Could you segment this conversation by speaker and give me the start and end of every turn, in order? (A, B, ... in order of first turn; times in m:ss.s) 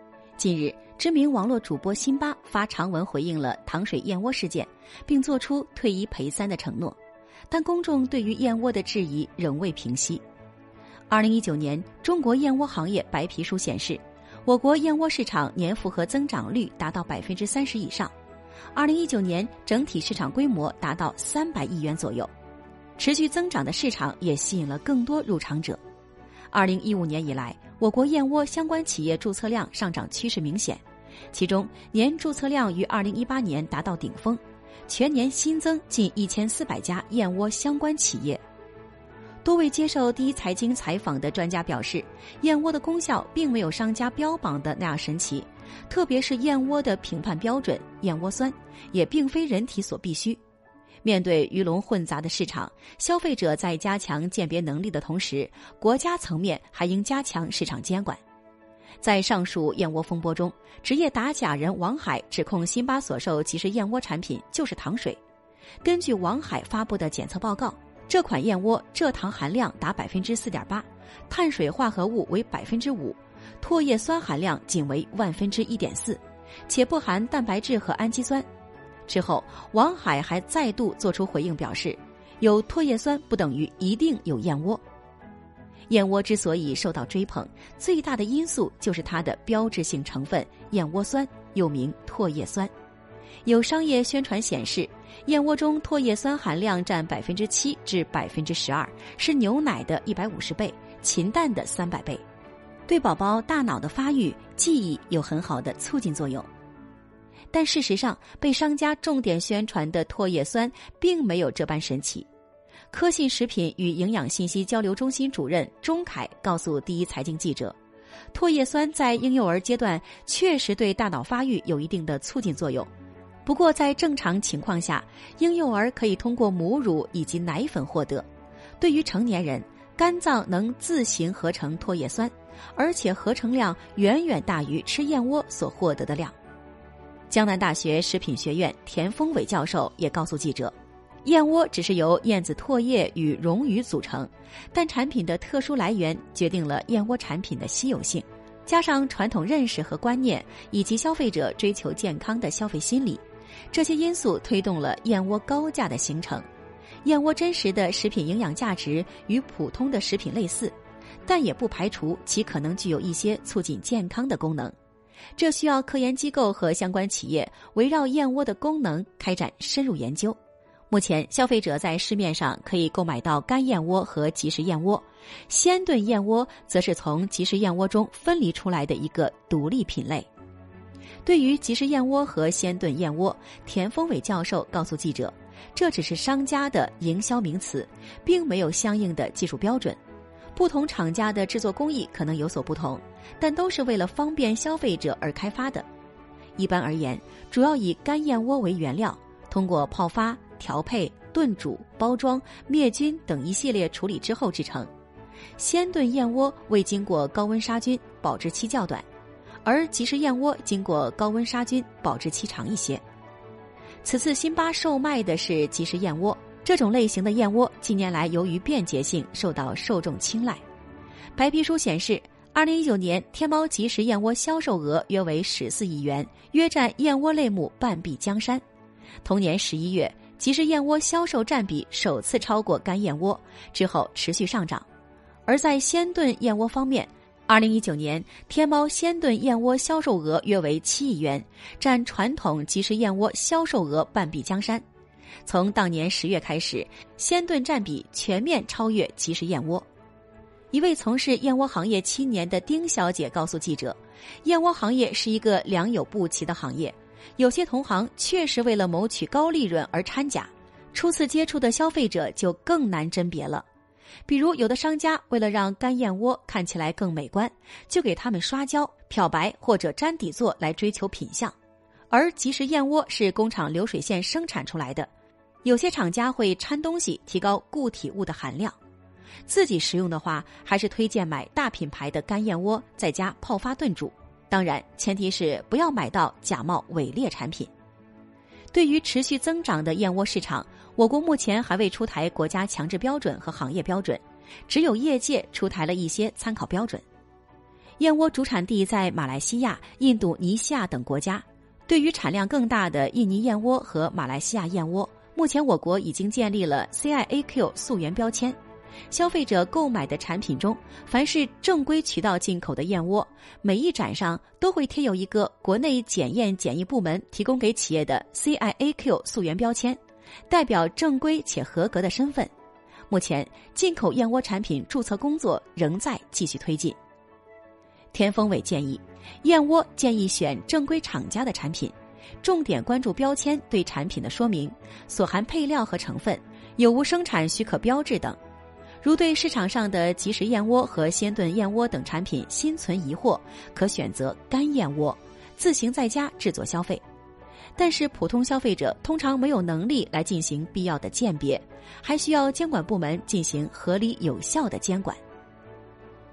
0:00.4-0:07.0 A
0:07.5-0:10.2 A
0:11.1-0:18.1 A
0:18.7-0:22.3 A
0:23.0-0:25.8 A
0:26.5-0:38.4 A
0:39.4-0:50.4 A
0:51.0-0:58.2 A
0:59.0-1:05.2 A
1:05.8-1:18.4 A
1:19.0-1:24.8 A
1:25.9-1:32.7 A
1:33.4-1:42.2 A
1:42.9-1:46.5 A
1:47.5-1:52.3 A
1:52.9-1:57.7 A
1:58.3-2:02.9 A
2:03.4-2:08.2 A
2:08.8-2:16.3 A
2:17.3-2:20.7 A
2:21.2-2:36.4 A
2:37.0-2:40.7 A
2:41.2-2:44.7 A
2:45.4-2:50.4 A
2:50.9-3:00.3 A
3:01.2-3:10.0 A
3:10.6-3:15.8 A
3:16.6-3:24.9 A
3:25.6-3:29.0 A
3:29.6-3:33.0 A
3:34.0-3:40.6 A
3:41.4-3:48.6 A
3:49.2-3:54.8 A
3:55.4-4:04.8 A
4:05.4-4:09.8 A
4:10.7-4:23.6 A
4:24.2-4:31.5 A
4:32.1-4:35.1 A
4:35.6-4:38.8 A
4:39.4-4:47.7 A
4:48.7-4:57.0 A
4:58.0-5:08.6 A
5:09.1-5:20.0 A
5:20.5-5:22.5 A
5:23.1-5:27.0 A
5:28.1-5:38.4 A
5:39.0-5:47.0 A
5:47.8-5:55.2 A